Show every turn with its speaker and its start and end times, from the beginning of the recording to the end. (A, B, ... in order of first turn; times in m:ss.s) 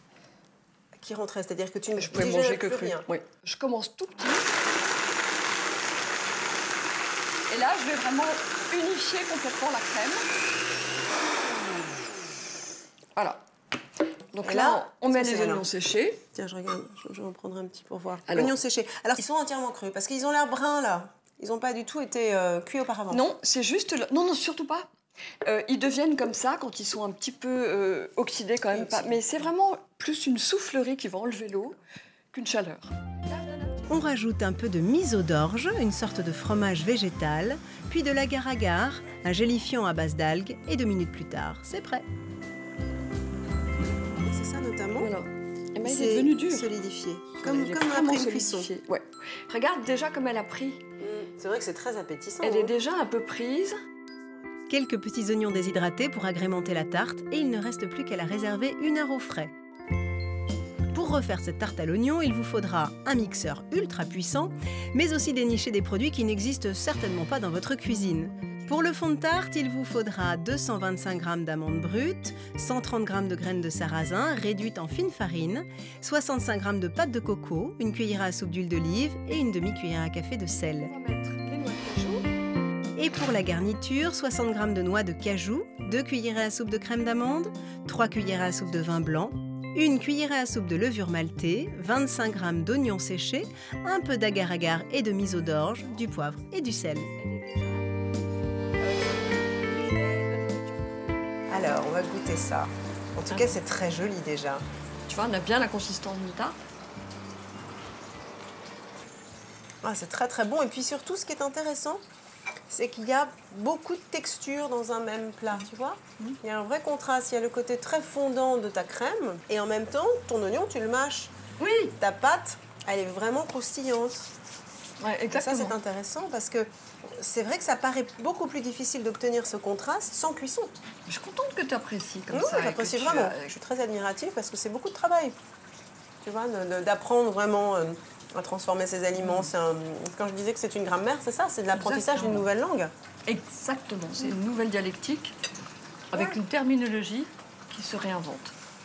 0:01.0-0:03.1 A
0:02.0-0:04.5 B
0:07.5-0:10.3 B
0:13.2-0:13.4 B
0:14.3-0:16.2 B
0:14.4-0:15.6 A
0:16.3-0:23.2 A
0:18.3-0:18.5 B
0:23.1-0:24.9 B
0:25.4-0:31.8 B
0:28.7-0:29.2 A
0:32.3-0:33.8 B
0:33.9-0:42.0 C
0:44.2-0:45.1 A
0:45.0-0:46.7 B
0:45.8-0:48.7 A
0:47.4-0:50.8 B
0:51.0-0:52.8 A
0:52.4-0:53.8 B
0:54.7-0:59.5 C
1:00.9-1:20.9 C
1:20.8-1:22.3 B
1:23.0-1:37.1 C
1:37.2-1:38.0 B
1:38.8-1:41.2 B
1:41.5-1:44.6 A
1:43.3-1:43.6 B
1:45.1-1:46.6 B
1:49.8-1:52.0 A
1:52.7-2:01.3 A
2:01.6-2:02.0 B
2:02.0-2:04.3 A
2:05.0-2:05.8 B
2:05.3-2:10.8 A
2:11.1-2:13.5 B
2:12.3-2:15.4 A
2:16.2-2:22.9 A
2:19.2-2:19.5 B
2:21.7-2:22.5 B
2:23.3-2:25.4 B
2:26.1-2:28.5 B